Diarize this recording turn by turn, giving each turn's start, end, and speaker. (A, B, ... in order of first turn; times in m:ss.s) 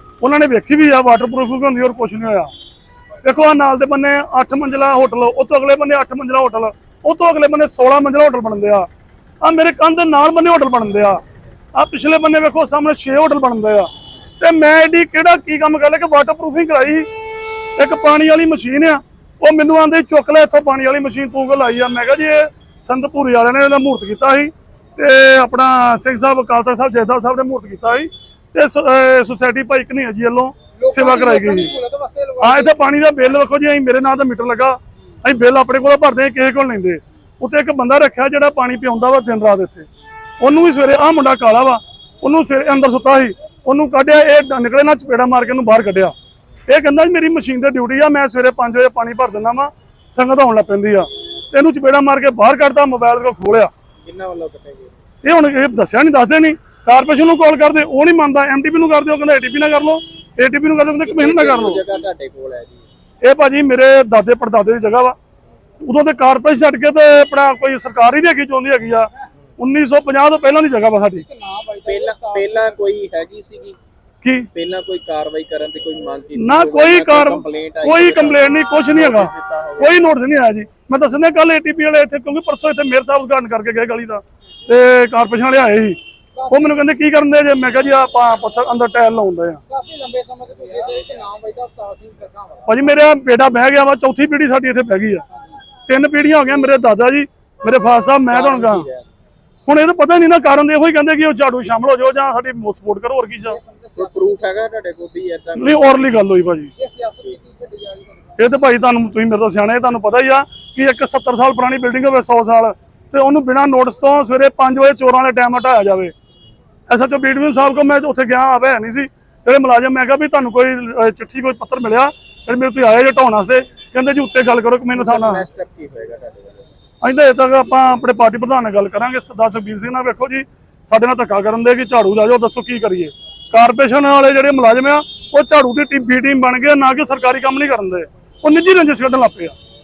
0:00.2-0:02.5 A
0:03.2-0:08.9 A
0:09.4-0:11.2 A
0:11.7-0:13.9 A
0:14.4-0:17.1 A
0:17.8-0:31.7 A
0:30.8-0:32.8 B
0:32.4-0:39.9 A
0:40.4-0:46.1 A
0:46.7-0:53.7 A
0:54.0-0:55.0 C
0:55.2-1:01.8 A
1:01.0-1:02.8 C
1:03.2-1:05.2 A
1:05.8-1:11.2 A
1:11.2-1:12.5 B
1:11.8-1:13.8 C
1:14.2-1:14.5 A
1:14.5-1:20.0 C
1:16.3-1:29.6 A
1:29.7-1:32.7 B
1:32.6-1:35.2 A
1:35.9-1:38.9 A
1:38.3-1:39.0 C
1:39.6-1:43.6 A
1:43.5-1:44.5 B
1:43.9-1:46.0 C
1:45.6-1:46.7 A
1:46.8-1:48.4 B
1:48.4-1:56.1 A
1:56.9-2:05.4 A
2:04.9-2:06.7 C
2:07.0-2:19.6 A